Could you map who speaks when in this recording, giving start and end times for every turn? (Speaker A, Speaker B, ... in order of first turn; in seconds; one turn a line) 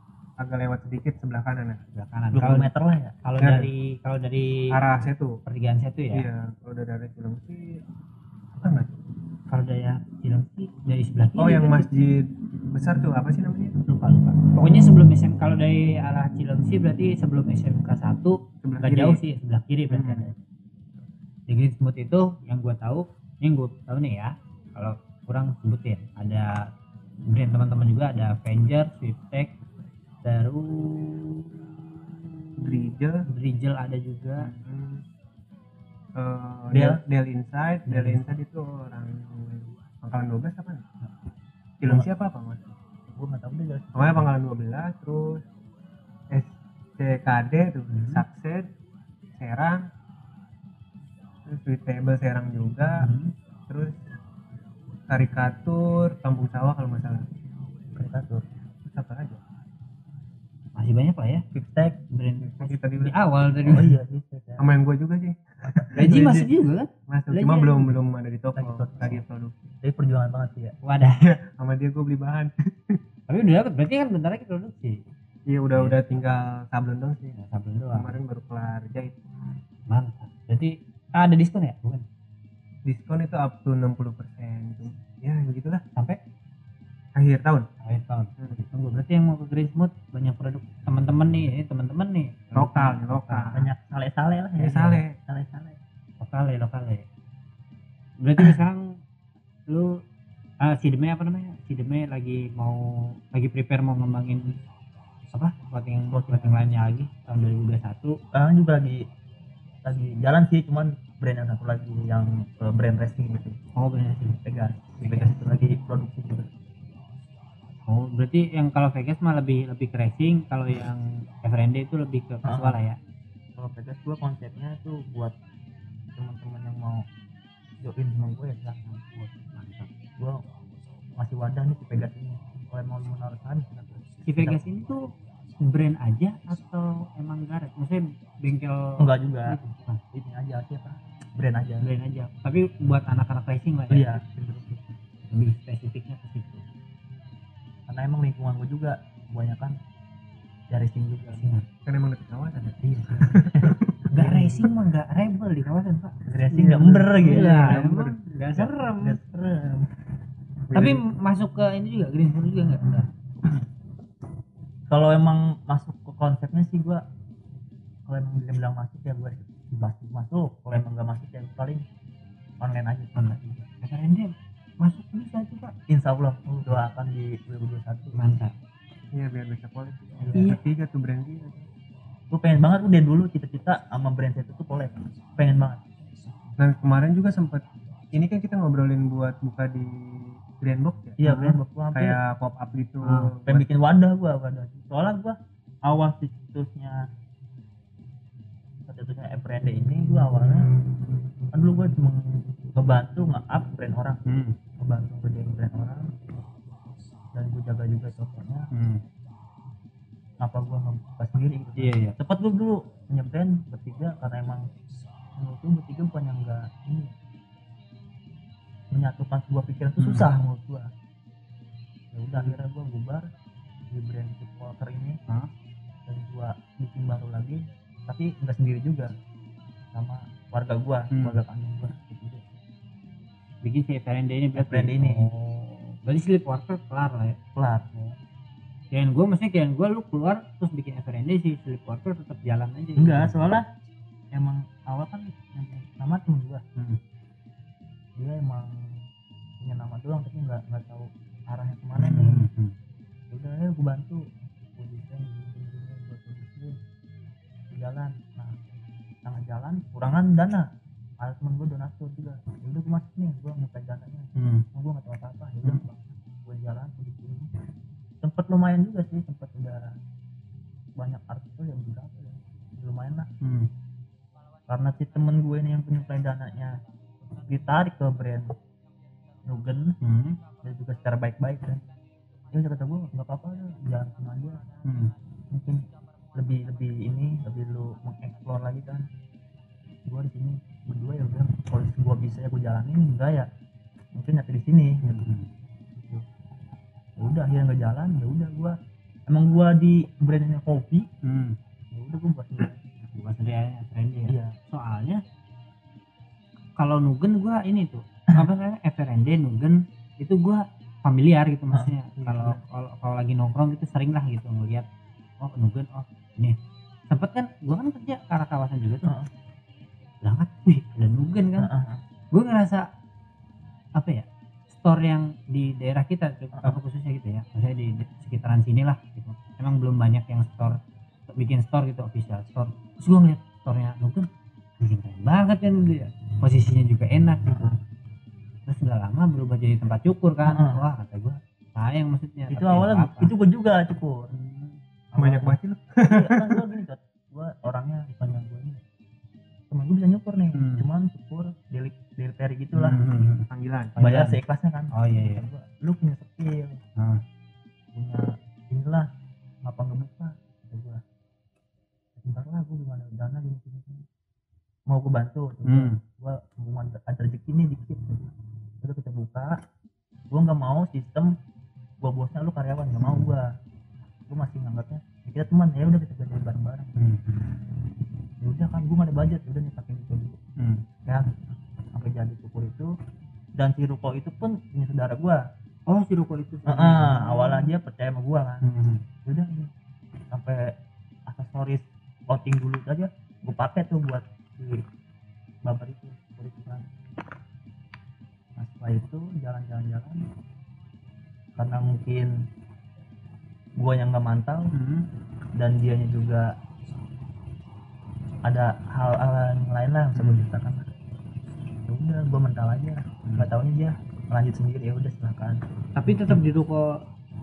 Speaker A: 0.4-1.8
Speaker B: 1.9-2.7
Speaker C: 2.4-3.2
Speaker B: 3.2-4.7
Speaker A: 3.4-3.7
Speaker A: 4.7-5.4
Speaker B: 5.5-6.3
Speaker A: 6.1-7.8
Speaker A: 8.6-8.9
Speaker B: 9.5-11.9
Speaker A: 11.4-13.7
Speaker B: 13.8-20.3
Speaker A: 18.6-19.2
Speaker A: 19.9-20.3
Speaker B: 21.5-26.6
Speaker B: 27.3-29.5
Speaker B: 30.2-34.5
Speaker A: 32.6-33.2
Speaker A: 34.4-35.0
Speaker A: 36.2-40.8
Speaker C: 36.7-37.0
Speaker B: 37.9-38.4
Speaker A: 41.8-42.6
Speaker C: 43.1-44.1
Speaker A: 43.9-45.4
Speaker A: 46.3-48.7
Speaker B: 47.9-48.2
Speaker A: 49.4-49.8
Speaker A: 51.5-53.1
Speaker B: 53.0-53.3
Speaker A: 53.7-53.9
Speaker A: 55.1-57.3
Speaker C: 57.9-58.5
Speaker A: 58.8-59.4
Speaker B: 60.8-61.4
Speaker C: 61.5-62.0
Speaker B: 62.1-63.9
Speaker A: 62.4-63.2
Speaker C: 63.6-64.7
Speaker A: 64.6-66.5
Speaker B: 66.0-68.0
Speaker A: 67.1-69.5
Speaker C: 68.5-69.2
Speaker C: 69.8-70.8
Speaker B: 70.8-71.4
Speaker A: 71.2-73.0
Speaker B: 73.3-75.0
Speaker A: 75.5-77.3
Speaker B: 75.7-76.0
Speaker B: 77.3-78.1
Speaker A: 77.9-79.1
Speaker B: 79.9-82.0
Speaker A: 82.8-85.8
Speaker A: 87.2-87.7
Speaker B: 87.8-93.6
Speaker A: 92.5-93.6
Speaker C: 93.5-95.8
Speaker A: 94.6-95.1
Speaker B: 94.7-95.0
Speaker B: 96.2-97.0
Speaker B: 98.2-99.0
Speaker B: 99.7-100.0
Speaker B: 100.6-104.5
Speaker B: 105.3-108.2
Speaker C: 106.1-106.6
Speaker C: 108.3-109.0
Speaker C: 109.8-113.6
Speaker B: 113.8-114.4
Speaker C: 114.4-116.5
Speaker B: 115.0-115.4
Speaker B: 117.9-123.0
Speaker C: 122.4-122.8
Speaker C: 123.6-125.3
Speaker C: 126.2-127.0
Speaker C: 127.8-128.9
Speaker B: 128.8-129.9
Speaker C: 131.2-134.6
Speaker B: 134.2-135.0
Speaker B: 135.6-140.0
Speaker C: 139.0-139.6
Speaker C: 140.1-141.9
Speaker B: 141.8-144.2
Speaker C: 143.9-144.8
Speaker B: 145.3-146.6
Speaker C: 147.9-149.8
Speaker C: 150.7-151.4
Speaker B: 151.3-151.7
Speaker A: 151.8-154.0
Speaker B: 152.8-153.3
Speaker C: 153.3-154.6
Speaker B: 154.1-159.2
Speaker C: 156.3-157.8
Speaker A: 156.6-158.2
Speaker C: 158.6-159.9
Speaker A: 160.7-161.0
Speaker B: 160.7-163.1
Speaker C: 164.9-167.0
Speaker C: 168.1-171.8
Speaker C: 172.6-173.4
Speaker B: 173.2-175.7
Speaker C: 175.9-178.2
Speaker B: 178.1-178.6
Speaker A: 179.1-181.6
Speaker C: 180.2-180.6
Speaker C: 182.3-185.8
Speaker A: 186.6-193.6
Speaker C: 191.2-192.2
Speaker B: 193.0-193.3
Speaker C: 193.4-197.1
Speaker C: 198.9-200.7
Speaker C: 201.5-204.2
Speaker B: 204.3-204.6
Speaker C: 204.8-206.1
Speaker C: 207.3-208.7
Speaker B: 208.7-209.0
Speaker C: 210.4-214.7
Speaker B: 211.8-212.2
Speaker C: 215.4-217.1
Speaker C: 218.9-220.9
Speaker B: 220.0-220.3
Speaker C: 222.1-223.3
Speaker C: 223.9-225.2
Speaker C: 226.1-229.1
Speaker C: 229.9-232.5
Speaker B: 231.1-231.4
Speaker B: 233.6-237.4
Speaker C: 234.6-235.3
Speaker C: 237.5-237.9
Speaker B: 238.9-243.4
Speaker C: 243.0-243.6
Speaker C: 244.3-246.6
Speaker C: 248.2-249.0
Speaker C: 249.6-252.4
Speaker B: 252.0-252.7
Speaker C: 253.3-254.2
Speaker C: 254.8-256.8
Speaker C: 257.7-258.6
Speaker C: 259.2-260.6
Speaker C: 261.2-267.5
Speaker B: 264.4-264.6
Speaker C: 268.2-269.9
Speaker C: 271.0-273.3
Speaker B: 273.4-273.7
Speaker C: 274.7-276.8
Speaker C: 277.4-278.5
Speaker C: 279.4-279.9
Speaker B: 280.0-280.4
Speaker C: 280.6-281.8
Speaker C: 282.5-284.6
Speaker B: 284.8-285.1
Speaker C: 285.5-289.1
Speaker C: 290.1-293.5
Speaker C: 294.1-295.3
Speaker B: 295.0-295.5
Speaker C: 295.9-296.2
Speaker C: 297.2-298.8
Speaker C: 299.3-301.1
Speaker B: 301.2-301.6
Speaker C: 301.9-302.9
Speaker B: 303.1-305.2
Speaker C: 304.3-304.6
Speaker B: 306.8-314.9
Speaker A: 312.2-312.6
Speaker B: 315.4-316.6
Speaker B: 317.1-319.1
Speaker B: 320.2-321.7
Speaker C: 321.6-322.0
Speaker B: 322.3-322.9
Speaker B: 323.9-334.3
Speaker C: 326.5-326.8
Speaker B: 334.8-337.8
Speaker B: 338.7-343.3
Speaker C: 340.4-340.8
Speaker C: 342.5-344.3
Speaker B: 344.3-344.8
Speaker C: 345.1-348.8
Speaker A: 345.2-346.6
Speaker C: 349.7-353.0
Speaker B: 350.5-350.8
Speaker B: 352.7-354.4
Speaker A: 353.5-353.9
Speaker C: 354.0-356.8
Speaker B: 354.9-355.4
Speaker C: 357.9-359.1
Speaker C: 359.6-361.0
Speaker C: 362.2-364.0
Speaker C: 364.9-368.3
Speaker B: 365.6-366.0
Speaker C: 368.8-369.5
Speaker C: 370.3-371.3
Speaker C: 372.0-373.5
Speaker B: 373.0-373.2
Speaker C: 374.3-376.9
Speaker B: 377.0-377.4
Speaker C: 378.4-380.4
Speaker B: 380.6-380.8
Speaker C: 381.1-381.4
Speaker C: 381.9-382.9
Speaker C: 383.6-385.4
Speaker B: 385.9-387.7
Speaker C: 386.7-388.6
Speaker B: 388.6-389.0
Speaker C: 389.2-389.7
Speaker C: 390.3-390.7
Speaker C: 391.3-394.2
Speaker C: 395.6-396.9
Speaker C: 398.6-400.2
Speaker C: 401.6-402.3
Speaker C: 403.8-404.7
Speaker B: 404.7-405.1
Speaker C: 405.6-406.5
Speaker C: 408.4-410.9
Speaker B: 410.1-410.5
Speaker C: 411.9-416.4
Speaker B: 413.2-413.5
Speaker B: 415.9-416.9